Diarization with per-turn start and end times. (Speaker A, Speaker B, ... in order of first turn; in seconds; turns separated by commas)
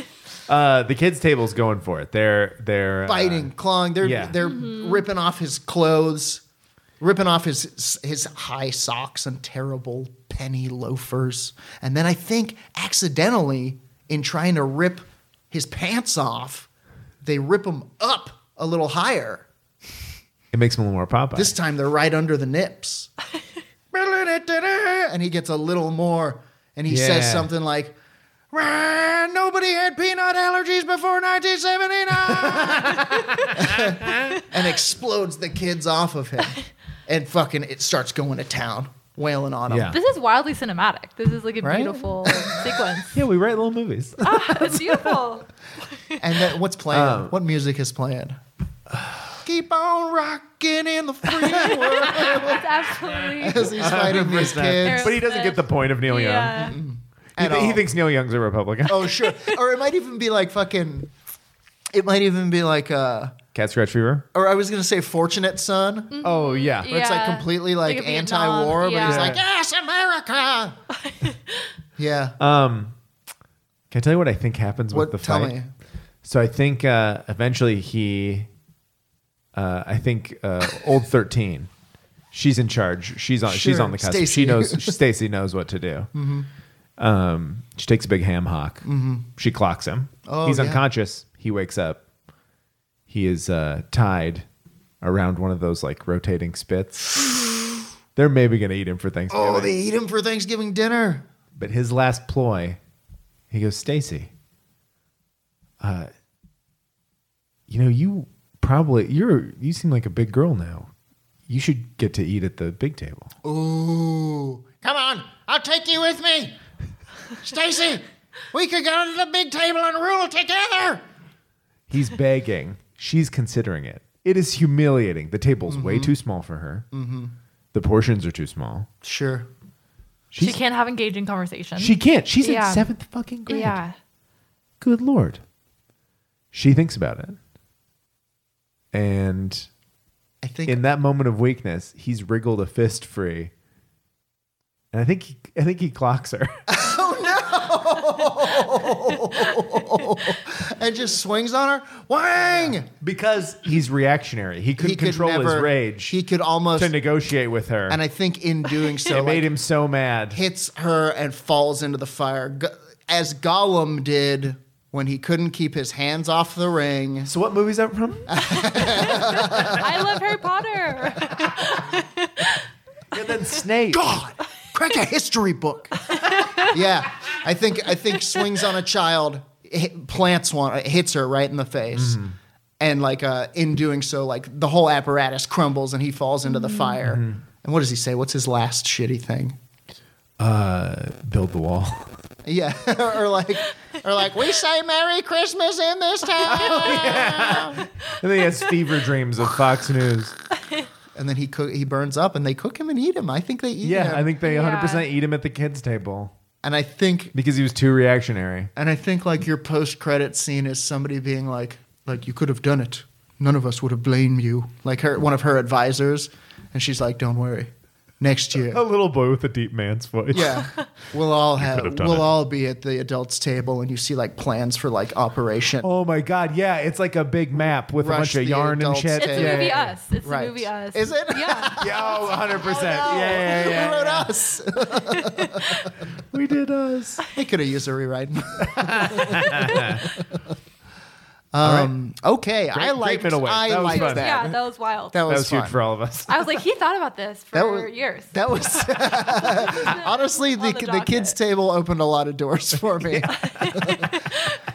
Speaker A: 0.5-4.4, Speaker B: 3.0-6.4, Speaker C: 4.4-5.0, Speaker B: 7.0-16.7, Speaker B: 17.2-19.5, Speaker A: 20.5-21.6, Speaker B: 21.3-23.1, Speaker B: 23.9-27.9, Speaker A: 26.9-27.5, Speaker B: 28.5-40.0, Speaker A: 32.3-34.4, Speaker A: 39.7-40.0, Speaker C: 39.9-43.2, Speaker B: 41.6-42.6, Speaker A: 43.1-45.3, Speaker C: 44.2-45.5, Speaker B: 46.2-48.4, Speaker A: 46.9-47.4, Speaker B: 49.4-52.6, Speaker A: 51.4-52.5, Speaker C: 52.0-54.2, Speaker B: 53.4-55.2, Speaker A: 53.6-56.8, Speaker C: 54.8-56.8, Speaker B: 56.5-57.8, Speaker A: 57.4-59.5, Speaker B: 58.9-61.2, Speaker B: 61.9-63.4, Speaker A: 63.5-64.3, Speaker B: 64.3-66.2, Speaker C: 66.1-69.4, Speaker A: 66.2-66.9, Speaker B: 66.9-70.8, Speaker A: 69.0-69.4, Speaker C: 71.1-71.6, Speaker B: 72.0-72.4, Speaker A: 72.4-73.0, Speaker A: 73.9-75.6, Speaker B: 74.9-75.7, Speaker A: 76.2-78.5, Speaker A: 79.5-81.7, Speaker A: 82.3-86.1, Speaker B: 83.5-85.0, Speaker B: 86.1-86.5, Speaker A: 87.0-92.0, Speaker B: 88.8-89.2, Speaker B: 90.3-90.8, Speaker A: 93.1-94.5, Speaker A: 95.0-97.2, Speaker C: 97.3-97.8, Speaker A: 98.1-99.7, Speaker B: 99.3-101.2, Speaker A: 101.5-102.8, Speaker A: 103.5-104.3, Speaker A: 105.8-106.1, Speaker A: 107.7-110.9, Speaker A: 111.5-113.3, Speaker B: 113.4-116.5, Speaker B: 117.4-121.0, Speaker A: 121.9-126.9, Speaker B: 125.7-126.1, Speaker B: 126.9-127.3, Speaker A: 127.7-128.9, Speaker B: 129.0-129.5, Speaker A: 130.3-130.6, Speaker C: 130.4-132.9, Speaker A: 131.8-133.8, Speaker C: 133.5-133.9, Speaker A: 134.8-135.4, Speaker A: 136.5-137.4, Speaker A: 138.9-139.7, Speaker B: 140.4-140.8, Speaker A: 140.7-143.5, Speaker A: 144.9-146.6, Speaker B: 146.7-152.9, Speaker A: 152.5-156.2, Speaker B: 154.8-156.9, Speaker A: 156.8-158.0, Speaker B: 157.9-159.5, Speaker A: 159.1-160.4, Speaker B: 160.3-167.3, Speaker A: 167.3-169.6, Speaker B: 168.3-170.0, Speaker C: 168.7-172.6, Speaker A: 173.1-174.2, Speaker B: 173.9-182.2, Speaker C: 176.3-176.7, Speaker A: 181.9-182.4, Speaker B: 182.8-189.6, Speaker C: 186.5-186.9, Speaker A: 187.0-187.4, Speaker A: 190.4-192.1, Speaker B: 192.4-197.8, Speaker A: 196.4-200.3, Speaker B: 201.1-204.3, Speaker A: 203.8-206.3, Speaker C: 204.4-205.1, Speaker B: 206.6-207.3, Speaker A: 207.3-208.7, Speaker B: 208.8-218.8, Speaker A: 218.7-220.7, Speaker B: 220.3-225.9, Speaker A: 221.6-222.3, Speaker A: 225.8-230.0, Speaker B: 228.0-229.7, Speaker C: 229.2-231.9, Speaker B: 230.2-235.9, Speaker A: 231.8-234.3, Speaker C: 233.1-233.5, Speaker C: 235.2-235.7, Speaker A: 236.3-237.2, Speaker B: 237.3-240.4, Speaker A: 238.6-240.1, Speaker B: 241.5-244.6, Speaker A: 241.6-241.9, Speaker A: 242.7-244.5, Speaker C: 243.9-245.2, Speaker B: 245.1-245.8, Speaker A: 245.2-246.5, Speaker C: 246.3-251.4, Speaker B: 247.5-254.2, Speaker A: 253.0-253.9, Speaker C: 253.4-254.5